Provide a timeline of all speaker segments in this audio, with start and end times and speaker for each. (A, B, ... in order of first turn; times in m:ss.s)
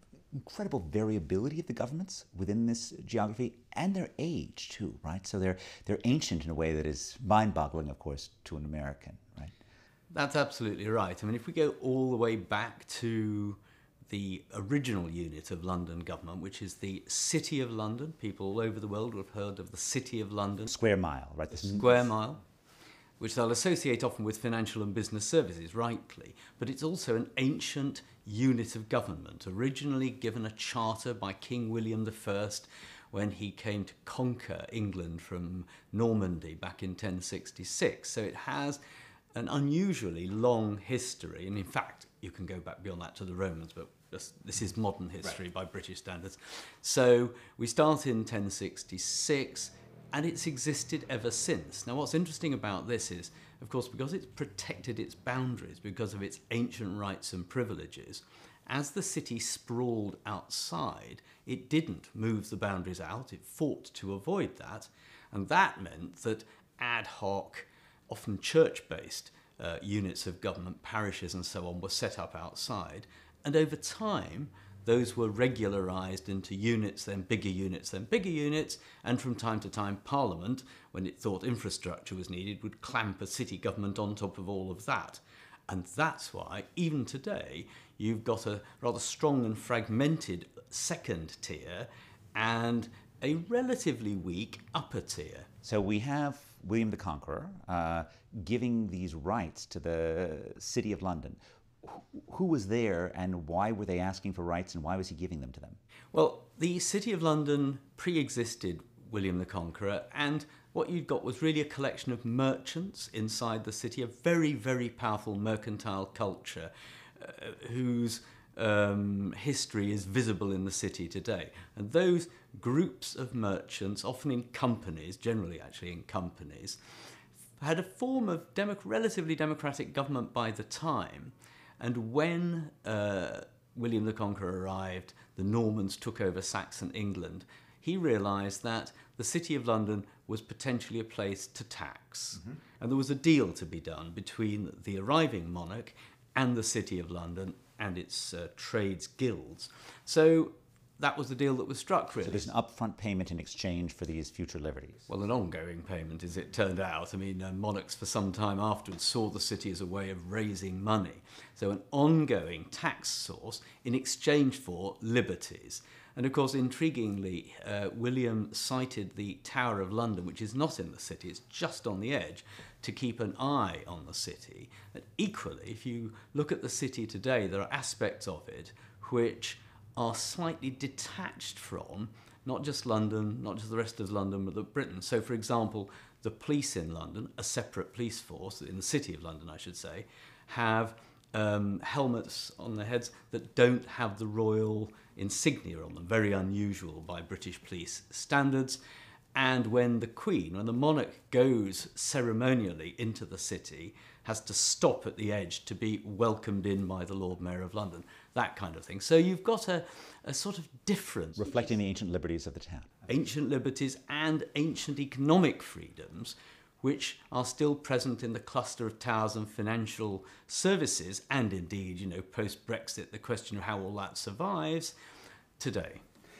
0:00.3-0:09.5 A
0:10.1-0:20.7 B
0:20.7-0:22.1 A
0:21.6-0:22.4 B
0:23.2-0:38.8 B
0:39.3-1:35.5 B
1:35.6-1:45.8 A
1:46.1-2:06.8 B
2:07.6-2:32.5 B
2:32.2-2:35.1 A
2:35.1-3:18.8 B
3:19.3-3:31.4 B
3:31.4-3:32.9 A
3:33.1-3:44.9 B
3:45.6-3:46.0 B